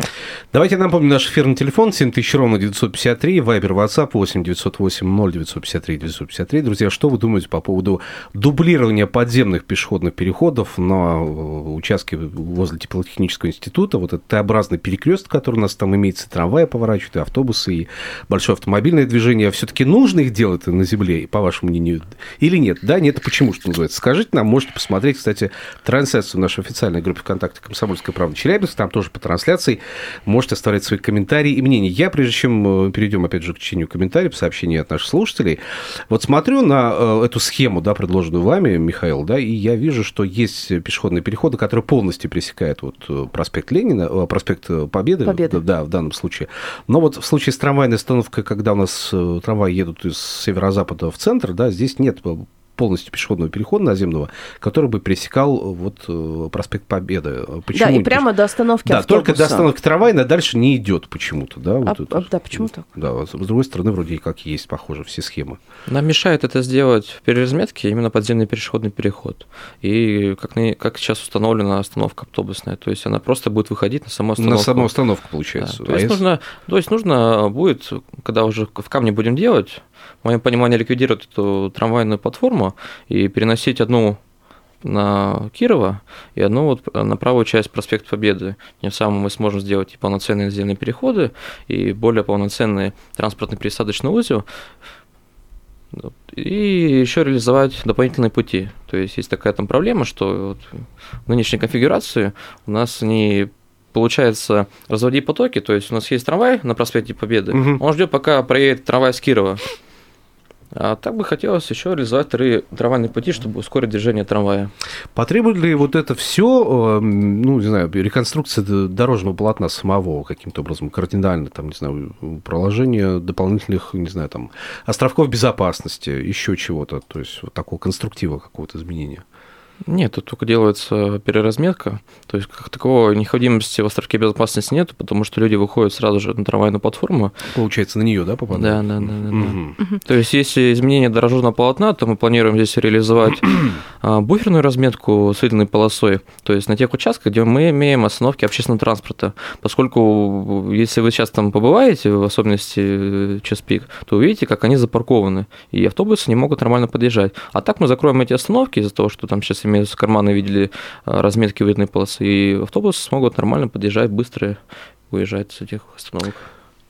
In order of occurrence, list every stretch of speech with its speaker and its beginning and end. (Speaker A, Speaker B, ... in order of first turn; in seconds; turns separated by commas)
Speaker A: 0.5-58.3, Speaker B: 45.2-45.6, Speaker B: 57.7-59.7, Speaker A: 58.9-65.6, Speaker B: 61.8-62.9, Speaker C: 65.9-74.9, Speaker A: 74.4-76.2, Speaker C: 75.6-84.2, Speaker C: 84.8-94.5, Speaker C: 95.9-109.6, Speaker A: 107.5-107.8, Speaker C: 110.7-114.7, Speaker A: 115.1-129.2, Speaker C: 129.9-137.3, Speaker A: 137.5-139.8, Speaker C: 138.5-164.6, Speaker C: 165.1-166.5